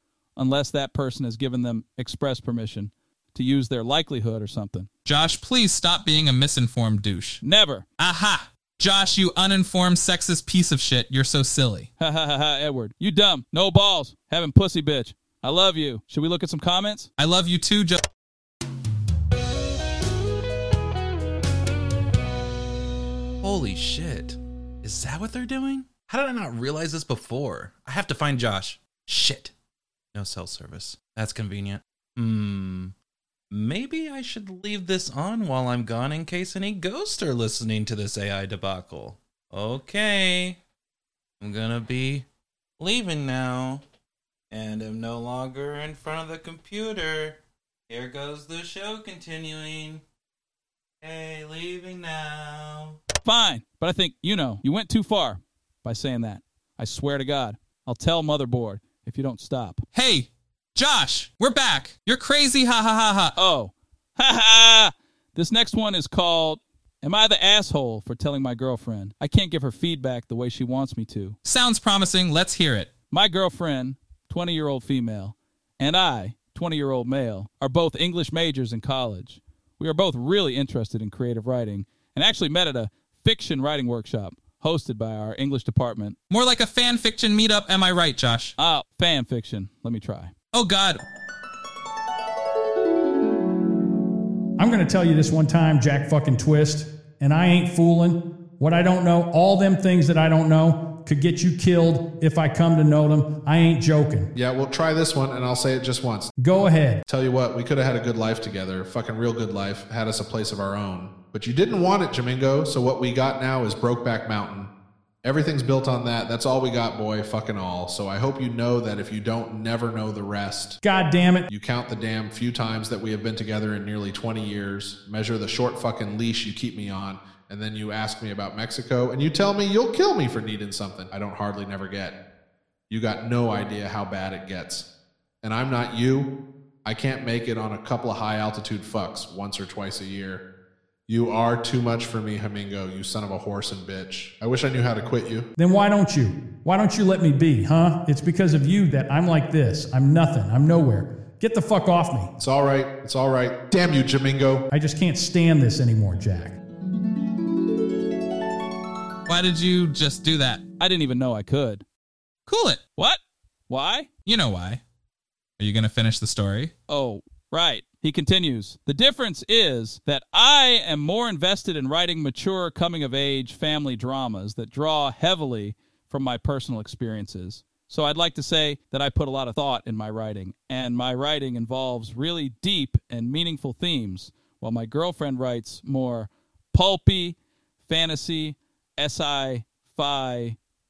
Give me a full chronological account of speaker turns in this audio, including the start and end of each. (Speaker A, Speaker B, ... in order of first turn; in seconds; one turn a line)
Speaker A: 0.4-4.9
Speaker B: 5.0-7.4
Speaker A: 7.4-7.8
Speaker B: 8.0-11.9
Speaker A: 12.0-17.1
Speaker B: 17.2-18.0
Speaker C: 23.4-29.5
Speaker C: 30.1-32.9
Speaker C: 33.5-40.6
Speaker C: 41.4-42.3
Speaker C: 42.8-43.8
Speaker C: 44.5-50.0
Speaker C: 51.0-53.0
Speaker A: 53.2-59.8
Speaker B: 59.9-63.4
Speaker A: 63.4-71.4
Speaker B: 71.4-73.0
Speaker A: 73.1-86.2
Speaker B: 86.3-88.5
Speaker A: 88.6-90.3
Speaker B: 90.5-91.0
Speaker D: 94.6-104.3
Speaker E: 104.3-106.3
Speaker D: 106.4-107.0
Speaker E: 107.1-114.7
Speaker E: 115.2-120.8
Speaker D: 120.8-121.5
Speaker E: 121.5-132.2
Speaker E: 132.9-134.9
Speaker E: 135.4-136.3
Speaker E: 136.8-140.4
Speaker E: 141.1-145.5
Speaker D: 145.6-152.3
Speaker E: 152.4-154.7
Speaker D: 154.7-156.6
Speaker B: 159.3-160.6
Speaker A: 160.8-161.8
Speaker B: 162.5-162.8
Speaker A: 163.0-164.1
Speaker B: 164.3-164.8
Speaker B: 165.6-166.7
Speaker A: 166.9-190.6